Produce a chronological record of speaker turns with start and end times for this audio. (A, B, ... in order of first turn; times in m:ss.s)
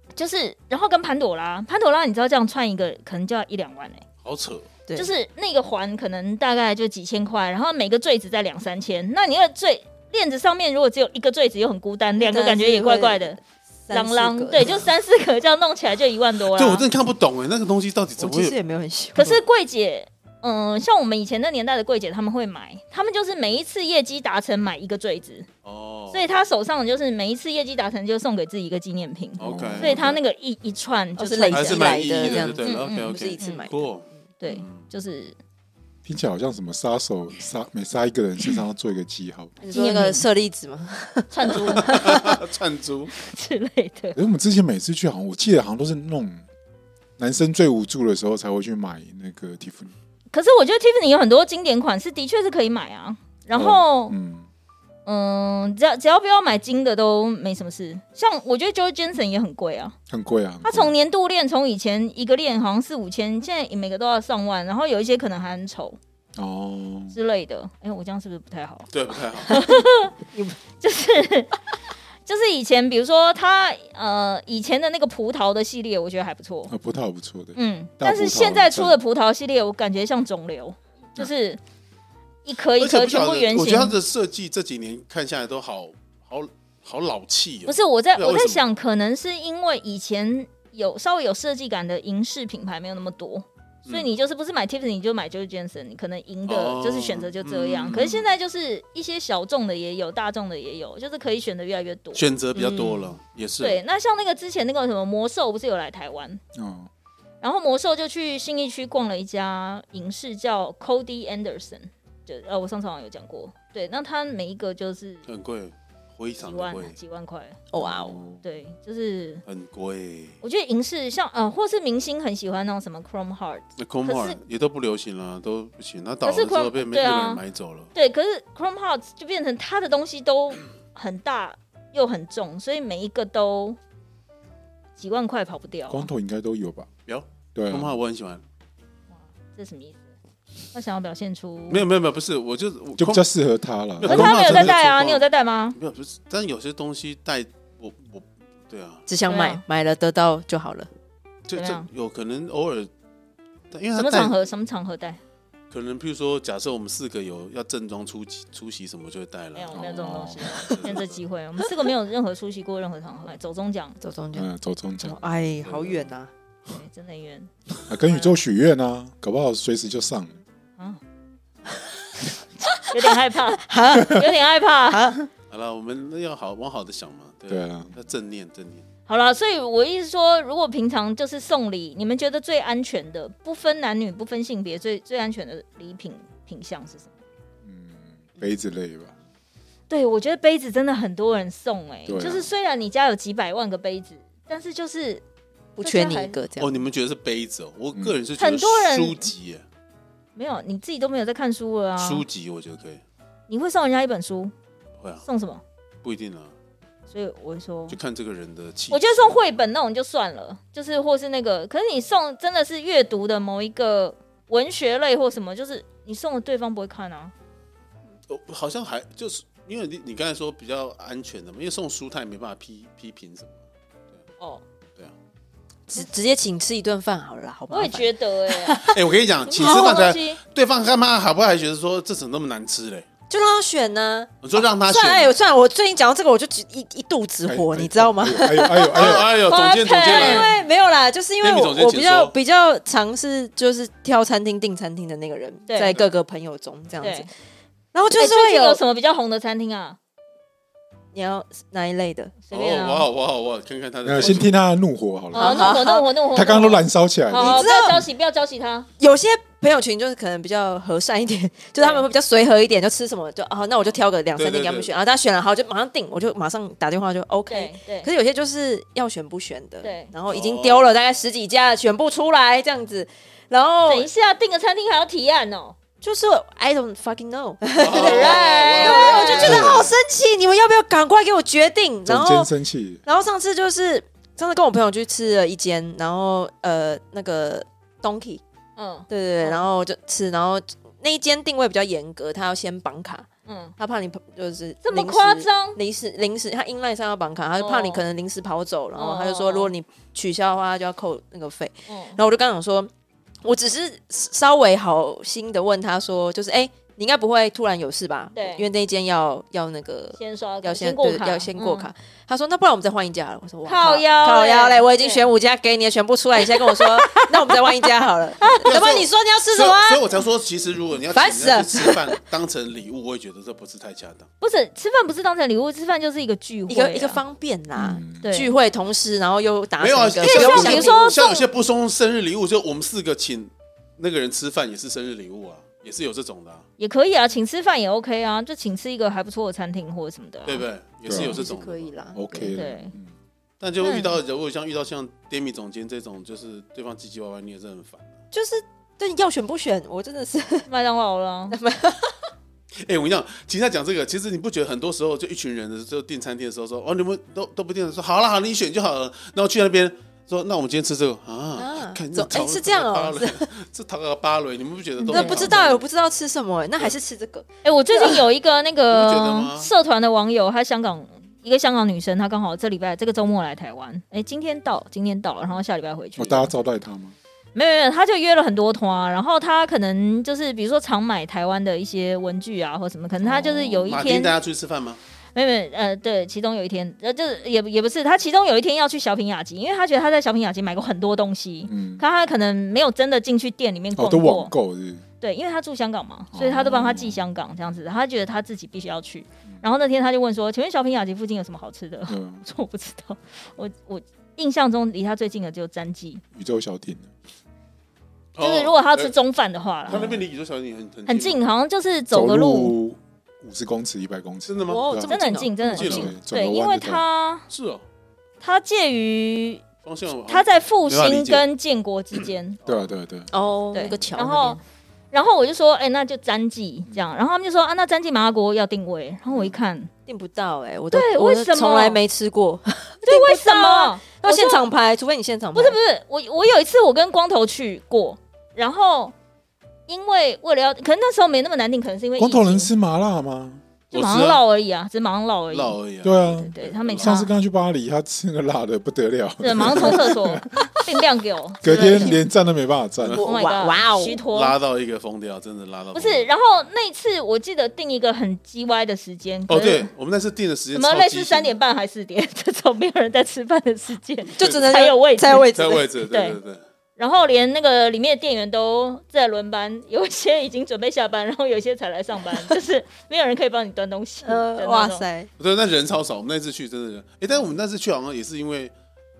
0:00.2-0:04.0 A
0:04.2-0:04.7 B
0:05.0-0:13.4 A
0:12.2-0:14.8 C
0:13.9-0:16.9 A
0:16.5-0:18.6 B
0:18.2-0:19.4 C
0:19.1-0:25.5 A
0:25.6-0:26.2 B
0:26.1-0:33.6 A
0:29.4-0:30.2 B
0:29.4-0:30.2 D
0:31.2-0:33.9 C
0:31.5-0:34.8 B
0:34.4-0:35.4 A
0:36.0-0:39.5 D
0:39.6-0:42.4 C
0:39.7-0:40.2 A
0:41.3-0:42.1 A
0:41.8-0:43.1 B
0:43.2-0:44.2 A
0:44.1-0:46.4 D
0:47.2-0:49.9 D
0:50.3-0:54.1 A
0:53.5-0:54.4 D
0:55.0-0:59.9 A
1:00.1-1:00.9 D
1:00.6-1:06.0 A
1:06.4-1:07.1 D
1:07.1-1:08.9 A
1:08.9-1:09.6 B
1:09.5-1:10.1 A
1:10.8-1:11.6 A
1:12.3-1:16.7 A
1:16.7-1:19.0 D
1:17.6-1:21.6 A
1:22.4-1:24.0 A
1:22.8-1:28.6 B
1:27.7-1:42.2 A
1:36.5-1:38.3 B
1:42.1-1:43.8 B
1:42.6-1:43.1 C
1:43.6-1:46.4 A
1:46.6-1:46.9 D
1:47.4-1:55.2 A
1:55.3-1:56.9 B
1:56.4-1:57.6 A
1:57.7-1:58.2 C
1:57.8-1:58.4 D
1:58.4-1:59.4 A
1:59.4-2:00.4 B
2:00.4-2:04.4 A
2:03.8-2:07.9 B
2:06.2-2:07.4 A
2:07.9-2:13.8 A
2:15.0-2:16.1 A
2:15.9-2:16.9 D
2:17.0-2:18.4 B
2:17.6-2:17.9 D
2:19.5-2:20.0 A
2:20.7-2:21.8 A
2:21.7-2:23.2 B
2:23.0-2:24.8 D
2:24.0-2:25.2 B
2:24.0-2:25.8 A
2:25.8-2:29.0 B
2:29.1-2:30.9 C
2:29.3-2:29.6 A
2:31.5-2:32.9 B
2:31.6-2:31.9 A
2:33.7-2:34.3 B
2:34.0-2:35.2 A
2:35.7-2:39.9 B
2:39.6-2:44.0 A
2:39.7-2:40.6 D
2:40.6-2:41.2 B
2:44.0-2:44.5 C
2:44.3-2:45.3 D
2:45.0-2:46.3 C
2:45.6-2:46.0 B
2:46.7-2:47.5 A
2:47.9-2:50.4 D
2:48.0-2:48.3 A
2:52.7-2:55.0 A
2:53.6-2:54.3 C
2:54.9-2:55.3 C
2:55.5-2:58.8 B
2:57.5-2:57.9 D
2:59.1-3:07.1 A
3:07.6-3:09.1 D
3:09.9-3:15.2 A
3:12.0-3:12.5 D
3:15.8-3:16.9 C
3:15.8-3:16.4 A
3:16.6-3:19.6 B
3:18.4-3:19.3 A
3:20.4-3:22.2 A
3:22.0-3:23.0 B
3:23.5-3:24.5 A
3:25.2-3:25.6 A
3:26.0-3:26.5 B
3:27.1-3:28.0 A
3:27.9-3:29.5 B
3:28.9-3:37.3 A
3:38.3-3:43.6 B
3:45.9-3:49.0 C
3:47.7-3:48.9 A
3:48.9-3:53.0 B
3:49.4-3:50.4 A
3:49.6-3:50.0 C
3:53.3-3:59.2 C
3:54.4-3:55.3 B
3:57.4-3:59.3 D
3:58.9-4:00.6 B
3:59.2-4:00.5 A
3:59.9-4:07.3 C
4:01.4-4:02.3 B
4:05.7-4:06.0 A
4:07.0-4:07.3 A
4:07.9-4:08.8 C
4:08.1-4:10.0 A
4:11.1-4:12.3 C
4:12.4-4:13.1 A
4:12.5-4:14.6 B
4:14.0-4:17.7 D
4:15.3-4:16.1 C
4:15.3-4:18.9 A
4:17.3-4:18.0 C
4:19.0-4:34.1 C
4:21.8-4:22.1 A
4:24.4-4:24.9 B
4:27.5-4:28.1 A
4:29.8-4:30.1 A
4:30.3-4:30.9 B
4:33.9-4:35.8 A
4:36.0-4:42.5 C
4:37.8-4:39.9 B
4:37.9-4:39.8 A
4:39.4-4:39.9 D
4:42.0-4:43.0 D
4:43.0-4:48.4 C
4:48.8-4:49.7 A
4:49.1-5:02.9 C
4:53.4-4:53.7 A
4:54.8-4:55.8 A
4:57.6-4:58.0 A
4:59.0-4:59.7 A
5:01.9-5:02.2 A
5:03.4-5:20.1 C
5:08.3-5:08.6 A
5:10.2-5:11.9 A
5:13.6-5:15.3 A
5:16.4-5:17.8 A
5:18.4-5:18.7 A
5:18.6-5:24.3 B
5:21.1-5:22.2 C
5:24.4-5:27.2 A
5:26.7-5:31.0 C
5:27.8-5:28.3 D
5:28.2-5:28.5 A
5:29.8-5:36.6 B
5:30.2-5:31.4 A
5:36.8-5:40.6 A
5:40.4-5:41.9 B
5:41.0-5:41.4 D
5:41.1-5:42.5 C
5:42.1-5:43.1 D
5:42.5-5:42.9 A
5:43.6-5:48.1 B
5:43.8-5:44.2 A
5:48.3-5:50.7 C
5:50.7-5:51.6 A
5:51.5-5:52.3 C
5:52.8-6:05.8 B
6:01.6-6:03.5 C
6:05.0-6:08.2 C
6:05.0-6:05.6 A
6:07.6-6:16.5 A
6:08.9-6:09.7 B
6:16.2-6:17.1 D
6:17.6-6:24.4 A
6:23.2-6:23.9 D
6:23.9-6:25.0 B
6:25.3-6:34.5 A
6:31.7-6:32.0 D
6:34.0-6:35.0 D
6:35.2-6:46.2 A
6:36.3-6:37.2 D
6:42.1-6:42.4 D
6:46.3-6:47.1 D
6:48.3-6:49.1 B
6:48.4-6:50.2 A
6:49.9-6:51.4 B
6:49.9-6:50.2 D
6:51.0-6:52.8 A
6:52.1-6:55.1 D
6:54.5-6:54.8 B
6:54.6-6:56.1 C
6:55.1-6:57.4 A
6:55.7-6:56.1 B
6:55.7-6:57.0 D
6:57.5-6:57.8 B
6:58.4-6:59.6 A
6:59.8-7:01.4 B
7:00.3-7:02.6 A
7:02.6-7:03.3 D
7:03.3-7:04.6 C
7:03.7-7:04.6 A
7:05.1-7:09.9 A
7:10.1-7:15.8 C
7:10.9-7:12.0 A
7:13.0-7:14.6 A
7:15.6-7:19.1 A
7:19.9-7:22.7 A
7:22.2-7:23.6 D
7:23.9-7:24.4 B
7:23.9-7:27.3 A
7:25.5-7:27.2 B
7:26.0-7:30.7 D
7:29.4-7:32.2 A
7:31.6-7:33.2 D
7:31.6-7:32.2 C
7:33.1-7:34.2 C
7:33.2-7:34.6 A
7:34.3-7:36.3 B
7:35.9-7:39.9 A
7:39.5-7:41.6 B
7:40.7-7:45.5 A
7:44.4-7:45.9 C
7:45.4-7:46.6 B
7:46.0-7:46.4 A
7:47.0-7:55.0 A
7:54.2-7:55.3 C
7:55.4-7:58.7 B